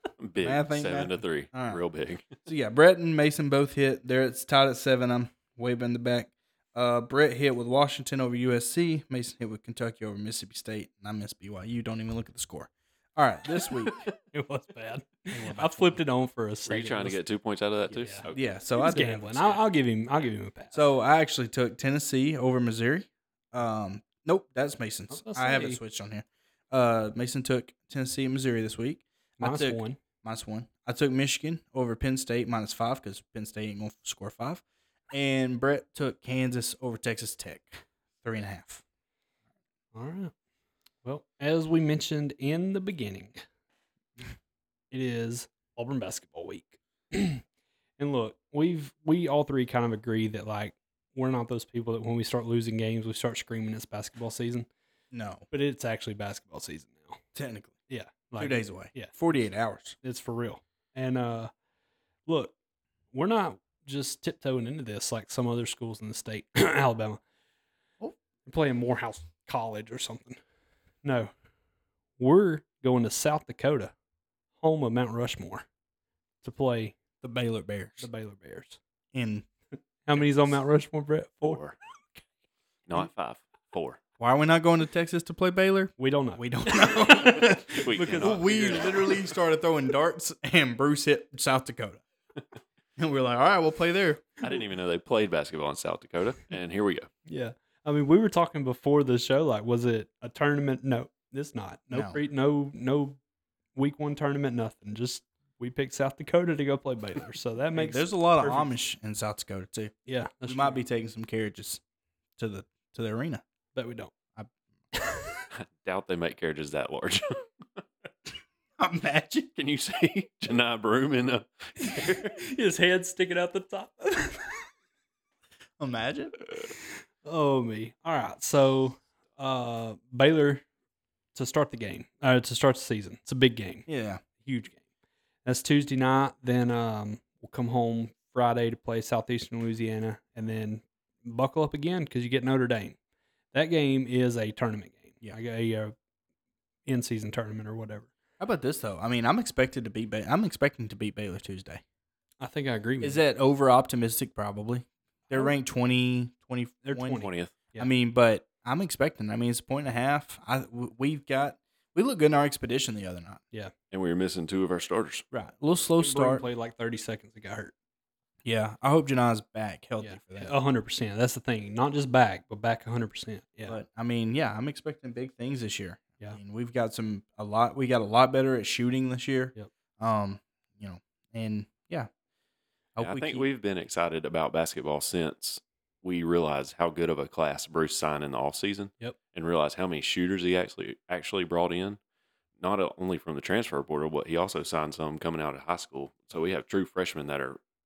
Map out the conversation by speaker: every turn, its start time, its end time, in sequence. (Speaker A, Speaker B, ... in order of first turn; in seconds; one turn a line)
Speaker A: 0.2-2.3
Speaker B: 0.4-1.8
Speaker B: 2.4-13.9
Speaker C: 14.3-17.2
Speaker B: 15.3-16.0
Speaker A: 16.7-18.5
Speaker C: 17.9-20.8
Speaker B: 18.3-19.6
Speaker B: 20.7-38.8
Speaker C: 25.1-25.8
Speaker C: 29.4-30.0
Speaker C: 39.9-40.3
Speaker C: 41.0-43.4
Speaker C: 44.9-47.4
Speaker C: 48.0-54.7
Speaker B: 55.1-55.5
Speaker C: 55.5-57.2
Speaker B: 57.4-57.8
Speaker C: 57.9-59.1
Speaker B: 58.4-60.0
Speaker C: 60.0-61.5
Speaker C: 62.3-62.5
Speaker C: 63.1-67.2
Speaker C: 68.5-70.4
Speaker C: 71.0-71.3
Speaker C: 72.2-73.9
Speaker C: 74.6-75.7
Speaker C: 76.4-77.0
Speaker B: 77.2-78.1
Speaker C: 78.0-78.8
Speaker B: 79.1-79.5
Speaker C: 80.1-81.6
Speaker A: 81.5-81.8
Speaker A: 82.9-84.0
Speaker B: 84.2-92.0
Speaker C: 86.0-89.2
Speaker A: 87.8-89.3
Speaker B: 93.0-94.4
Speaker A: 94.4-97.1
Speaker C: 97.3-103.2
Speaker B: 101.9-102.2
Speaker C: 103.8-108.7
Speaker B: 107.8-110.0
Speaker C: 110.1-110.8
Speaker B: 110.5-111.8
Speaker B: 112.4-113.4
Speaker C: 113.8-114.1
Speaker C: 114.9-115.4
Speaker A: 115.5-117.8
Speaker B: 118.8-119.5
Speaker A: 119.6-122.4
Speaker C: 121.9-124.5
Speaker B: 125.8-126.3
Speaker C: 127.2-130.7
Speaker C: 131.3-133.9
Speaker B: 133.9-134.2
Speaker C: 134.4-134.8
Speaker C: 135.4-143.0
Speaker C: 143.5-145.9
Speaker C: 146.9-148.1
Speaker B: 148.4-151.8
Speaker C: 152.4-153.2
Speaker B: 153.0-157.2
Speaker C: 156.8-157.9
Speaker A: 157.2-157.5
Speaker B: 157.8-163.4
Speaker A: 163.9-165.2
Speaker B: 165.3-166.4
Speaker C: 166.0-167.7
Speaker B: 168.4-170.5
Speaker C: 170.0-173.8
Speaker B: 173.7-182.1
Speaker B: 183.0-183.4
Speaker A: 183.0-192.0
Speaker A: 192.6-197.6